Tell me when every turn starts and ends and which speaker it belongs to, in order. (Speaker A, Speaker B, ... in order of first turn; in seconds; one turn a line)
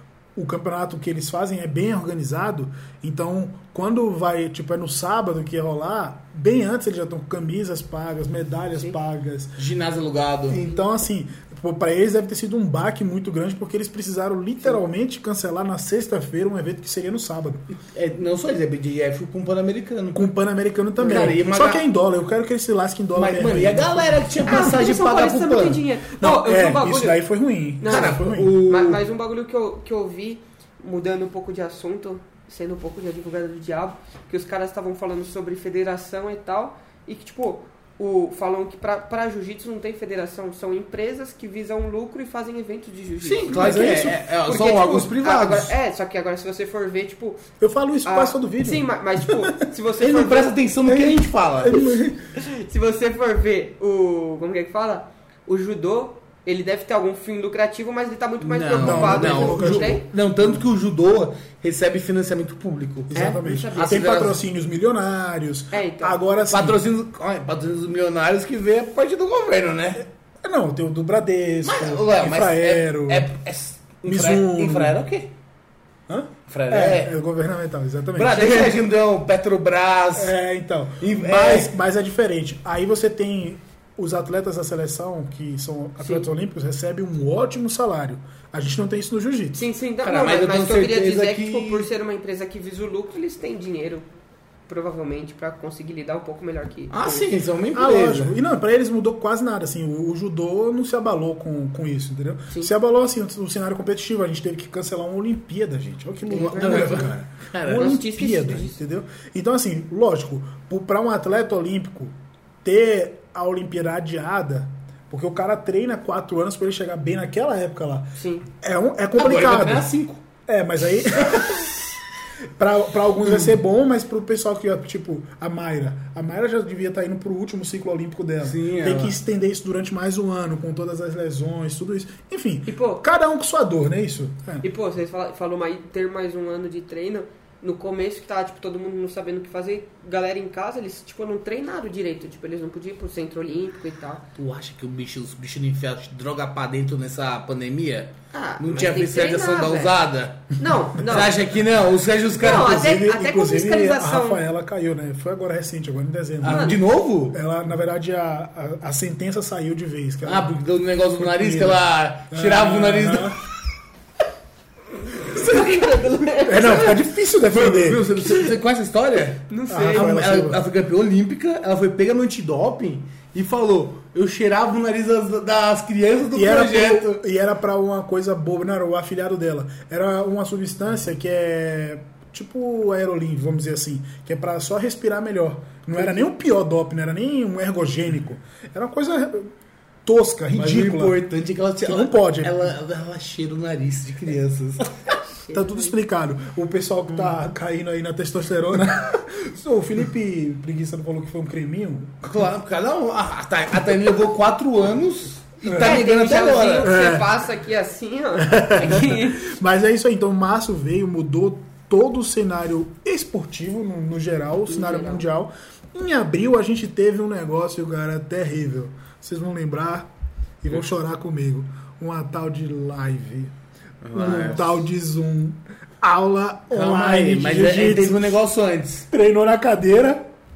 Speaker A: 0.3-9.6
Speaker B: 9.6-10.6
Speaker A: 10.5-17.6
Speaker B: 17.9-20.3
Speaker A: 20.1-24.6
Speaker B: 21.0-21.8
Speaker C: 21.0-21.3
Speaker B: 23.1-25.8
Speaker C: 24.4-27.2
Speaker A: 26.1-28.5
Speaker C: 27.8-47.4
Speaker B: 27.9-29.0
Speaker B: 43.2-45.7
Speaker A: 43.5-44.1
Speaker A: 47.6-49.5
Speaker C: 48.0-50.5
Speaker B: 50.0-51.8
Speaker A: 50.9-52.2
Speaker C: 51.7-60.0
Speaker B: 58.4-64.4
Speaker A: 58.8-60.0
Speaker A: 63.1-66.8
Speaker C: 63.1-64.1
Speaker C: 65.7-66.2
Speaker B: 66.5-70.0
Speaker A: 70.4-73.3
Speaker B: 71.6-75.3
Speaker A: 74.0-75.0
Speaker A: 76.1-78.7
Speaker B: 76.5-77.1
Speaker B: 78.2-80.3
Speaker C: 78.3-78.7
Speaker A: 80.1-89.7
Speaker B: 81.0-81.7
Speaker C: 86.0-86.3
Speaker C: 89.5-94.0
Speaker B: 90.0-91.9
Speaker C: 94.7-97.3
Speaker B: 96.9-98.3
Speaker A: 97.7-119.9
Speaker C: 106.3-107.1
Speaker B: 106.3-108.0
Speaker C: 107.7-108.8
Speaker C: 118.2-118.5
Speaker B: 119.2-120.2
Speaker A: 120.5-121.7
Speaker A: 122.6-134.6
Speaker B: 128.4-129.2
Speaker C: 132.7-133.0
Speaker C: 134.6-144.2
Speaker B: 144.3-152.8
Speaker C: 148.3-150.0
Speaker C: 150.6-151.4
Speaker C: 152.4-154.4
Speaker A: 152.4-160.6
Speaker B: 156.4-157.4
Speaker C: 156.5-156.8
Speaker B: 160.2-163.3
Speaker A: 161.2-163.4
Speaker C: 165.2-167.0
Speaker A: 166.4-168.3
Speaker B: 167.5-177.2
Speaker C: 169.5-170.2
Speaker A: 169.7-170.6
Speaker A: 176.3-189.5
Speaker A: 190.0-191.2
Speaker B: 190.5-195.2
Speaker A: 191.8-192.6
Speaker C: 195.4-195.9
Speaker A: 195.5-202.4
Speaker B: 202.2-206.9
Speaker A: 205.7-206.0
Speaker C: 205.7-209.5
Speaker A: 206.8-207.4
Speaker A: 208.4-220.1
Speaker B: 208.8-209.2
Speaker C: 214.7-215.2
Speaker A: 220.6-223.5
Speaker B: 224.0-224.8
Speaker A: 224.1-228.2
Speaker B: 226.7-229.1
Speaker A: 229.1-230.2